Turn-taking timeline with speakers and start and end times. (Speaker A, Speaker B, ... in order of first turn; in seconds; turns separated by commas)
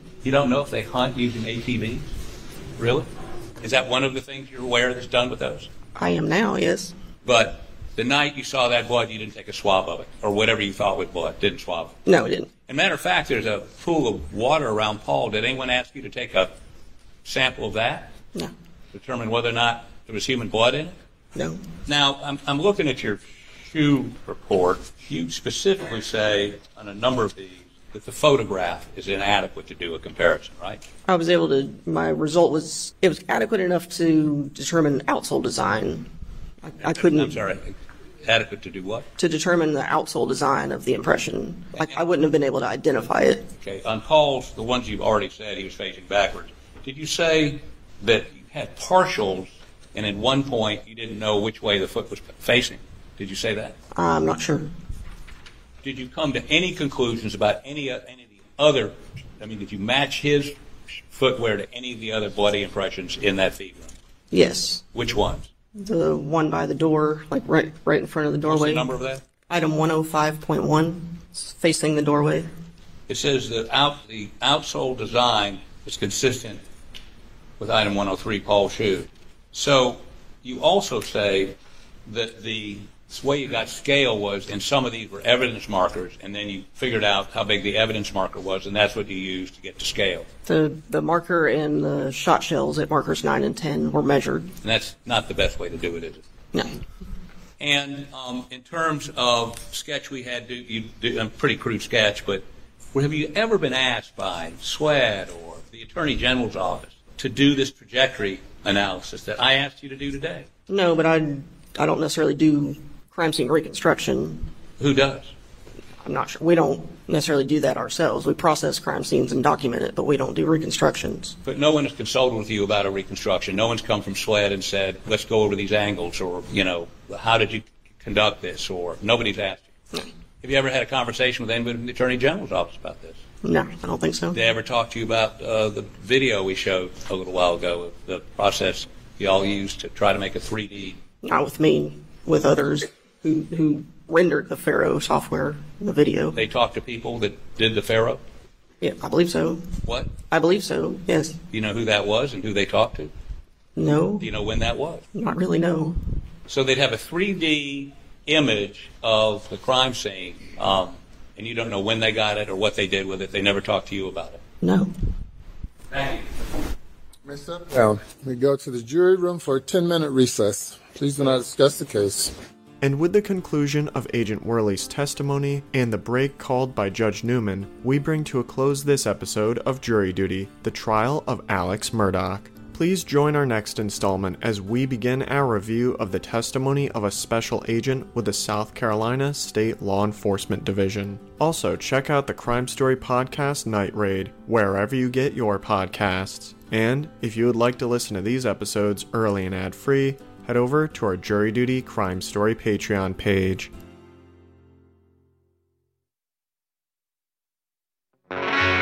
Speaker A: 0.2-2.1, Speaker A: 2.8-3.1, Speaker A: 3.6-5.7, Speaker B: 5.9-6.9, Speaker A: 7.2-12.0, Speaker B: 12.1-12.5, Speaker A: 12.7-16.5, Speaker A: 17.2-18.1, Speaker A: 18.9-21.0, Speaker B: 21.3-21.6, Speaker A: 21.9-30.8, Speaker B: 31.1-36.1, Speaker B: 36.6-37.4, Speaker A: 36.9-39.1, Speaker B: 39.2-43.5, Speaker A: 41.8-42.0, Speaker A: 43.6-53.8, Speaker B: 53.9-54.7, Speaker A: 55.8-60.5, Speaker A: 61.1-63.9, Speaker B: 64.3-64.8, Speaker A: 64.9-65.5, Speaker B: 65.8-68.9, Speaker A: 68.5-69.2, Speaker B: 69.5-72.5, Speaker A: 73.1-76.6, Speaker A: 77.6-81.5, Speaker A: 82.1-90.3, Speaker B: 90.5-94.5, Speaker A: 94.6-96.2, Speaker A: 97.6-110.5, Speaker B: 110.7-114.5, Speaker A: 114.8-115.3, Speaker B: 116.0-121.3, Speaker A: 121.4-129.7, Speaker A: 130.4-133.2, Speaker B: 133.4-134.4, Speaker A: 134.3-141.0, Speaker B: 141.2-146.4, Speaker A: 146.3-148.2, Speaker B: 148.8-151.4, Speaker A: 149.8-150.1, Speaker A: 151.5-153.1, Speaker B: 153.8-154.3, Speaker A: 154.2-155.0, Speaker B: 155.1-156.0, Speaker A: 156.5-164.4, Speaker B: 164.6-164.9, Speaker A: 165.9-166.3, Speaker C: 167.2-172.3, Speaker D: 172.8-203.7